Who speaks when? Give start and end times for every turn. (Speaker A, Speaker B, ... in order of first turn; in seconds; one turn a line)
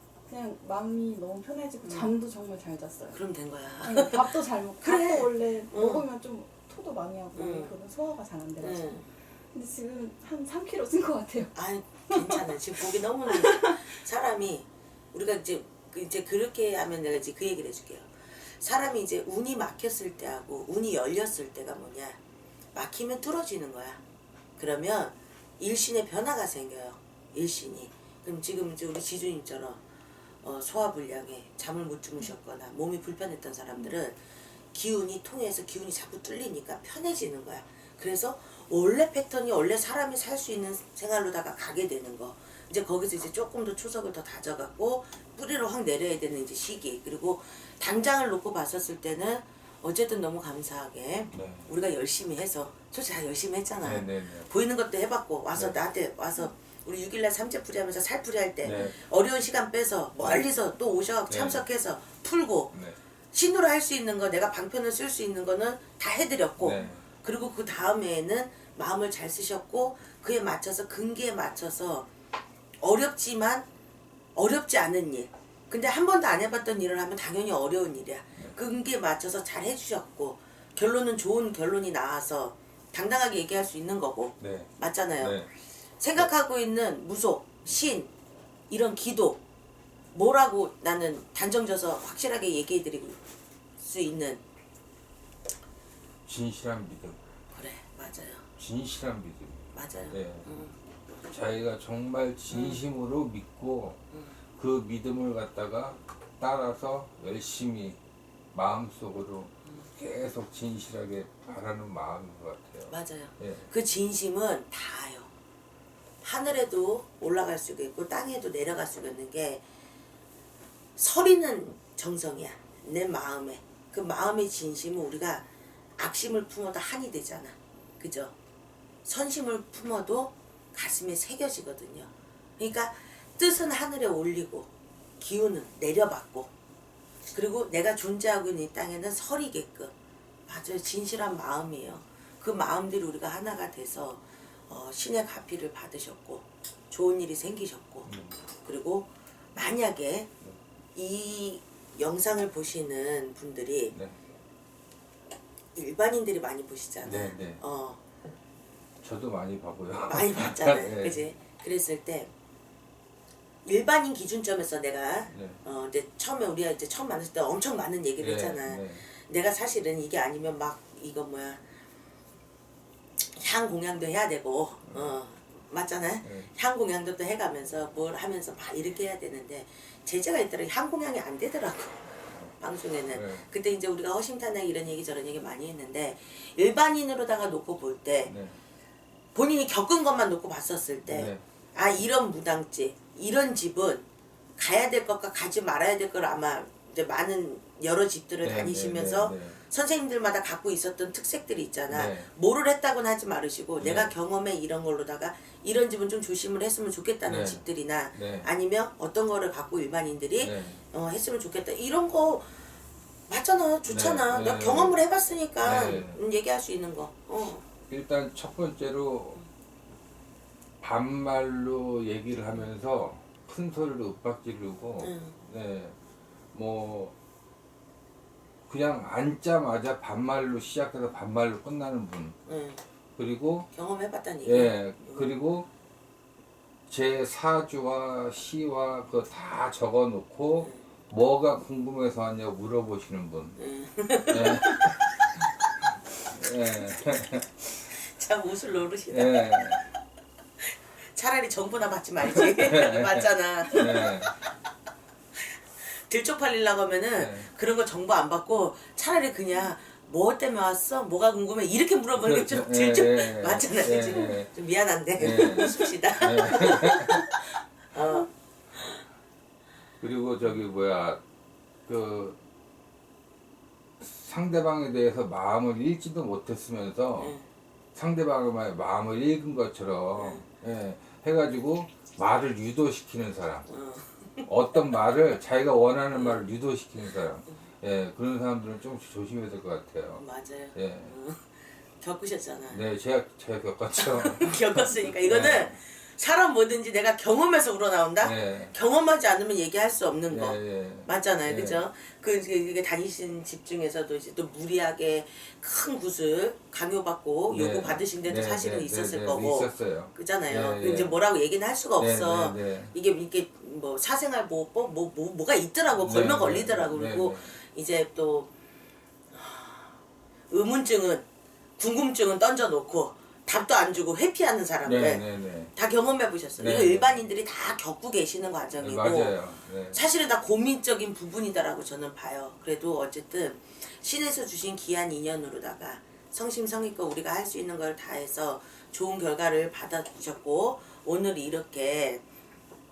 Speaker A: 0.3-3.2
Speaker B: 1.8-2.1
Speaker B: 3.1-6.0
Speaker A: 3.8-11.5
Speaker B: 7.4-7.7
Speaker B: 8.6-9.1
Speaker B: 11.6-22.2
Speaker A: 12.1-12.6
Speaker A: 13.3-14.0
Speaker B: 22.8-24.0
Speaker B: 24.6-29.8
Speaker B: 30.4-34.2
Speaker B: 34.7-62.7
Speaker C: 51.3-51.7
Speaker C: 53.8-54.5
Speaker C: 58.6-59.0
Speaker C: 61.3-61.6
Speaker B: 63.3-72.1
Speaker C: 66.6-67.0
Speaker B: 72.8-73.7
Speaker B: 74.3-85.4
Speaker C: 84.4-85.5
Speaker B: 86.0-88.1
Speaker B: 88.7-89.4
Speaker B: 90.1-93.2
Speaker B: 93.8-94.4
Speaker C: 96.3-97.2
Speaker B: 97.5-98.5
Speaker C: 98.6-100.5
Speaker B: 99.7-100.8
Speaker C: 101.3-104.0
Speaker B: 102.5-102.8
Speaker B: 104.1-104.4
Speaker C: 104.6-108.0
Speaker C: 108.5-113.7
Speaker B: 112.9-115.3
Speaker B: 116.2-119.6
Speaker B: 121.0-125.5
Speaker B: 126.0-128.3
Speaker B: 129.1-136.5
Speaker B: 137.3-139.9
Speaker B: 140.5-150.3
Speaker C: 148.1-148.4
Speaker B: 150.9-153.9
Speaker C: 153.9-154.2
Speaker B: 155.8-158.0
Speaker C: 157.1-157.6
Speaker C: 159.0-161.2
Speaker B: 160.1-162.3
Speaker B: 163.7-171.6
Speaker C: 165.3-165.6
Speaker C: 168.2-169.1
Speaker B: 173.2-188.3
Speaker C: 174.9-175.2
Speaker C: 176.2-176.5
Speaker C: 183.1-183.5
Speaker C: 188.3-188.6
Speaker B: 189.3-194.1
Speaker C: 191.1-191.4
Speaker B: 194.6-212.6
Speaker C: 198.4-199.6
Speaker C: 201.9-202.3
Speaker C: 203.8-204.1
Speaker C: 207.3-207.6
Speaker C: 208.1-208.5
Speaker C: 210.4-210.8
Speaker B: 213.3-217.7
Speaker C: 213.9-215.0
Speaker C: 215.6-216.2
Speaker C: 217.9-219.4
Speaker C: 220.8-226.0
Speaker B: 225.0-225.4
Speaker C: 226.5-227.2
Speaker C: 228.7-232.4
Speaker B: 232.5-232.8
Speaker C: 233.2-233.7
Speaker B: 233.7-235.3
Speaker C: 234.4-235.7
Speaker C: 236.9-243.6
Speaker B: 243.6-245.4
Speaker C: 244.3-245.2
Speaker C: 246.3-247.7
Speaker B: 246.8-247.3
Speaker B: 247.8-249.8
Speaker C: 249.1-249.8
Speaker B: 250.6-254.3
Speaker C: 252.4-254.3
Speaker B: 255.8-268.9
Speaker C: 257.2-257.5
Speaker C: 262.1-264.5
Speaker C: 265.2-267.2
Speaker C: 270.0-271.2
Speaker C: 271.9-272.4
Speaker C: 274.0-277.4
Speaker B: 277.2-277.4
Speaker C: 277.9-283.7
Speaker B: 280.1-280.4
Speaker B: 283.7-285.1
Speaker C: 284.5-290.2
Speaker B: 286.1-286.4
Speaker B: 287.0-287.6
Speaker B: 290.2-292.8
Speaker C: 290.7-291.1
Speaker C: 292.7-295.8
Speaker B: 294.0-318.5
Speaker C: 298.2-298.7
Speaker C: 300.3-301.9
Speaker C: 307.5-311.2
Speaker C: 312.0-312.9
Speaker C: 316.0-317.5
Speaker B: 319.3-319.9
Speaker B: 320.5-321.2
Speaker B: 321.8-329.4
Speaker C: 324.8-325.7
Speaker C: 326.6-327.2
Speaker C: 328.8-330.0
Speaker B: 329.9-342.2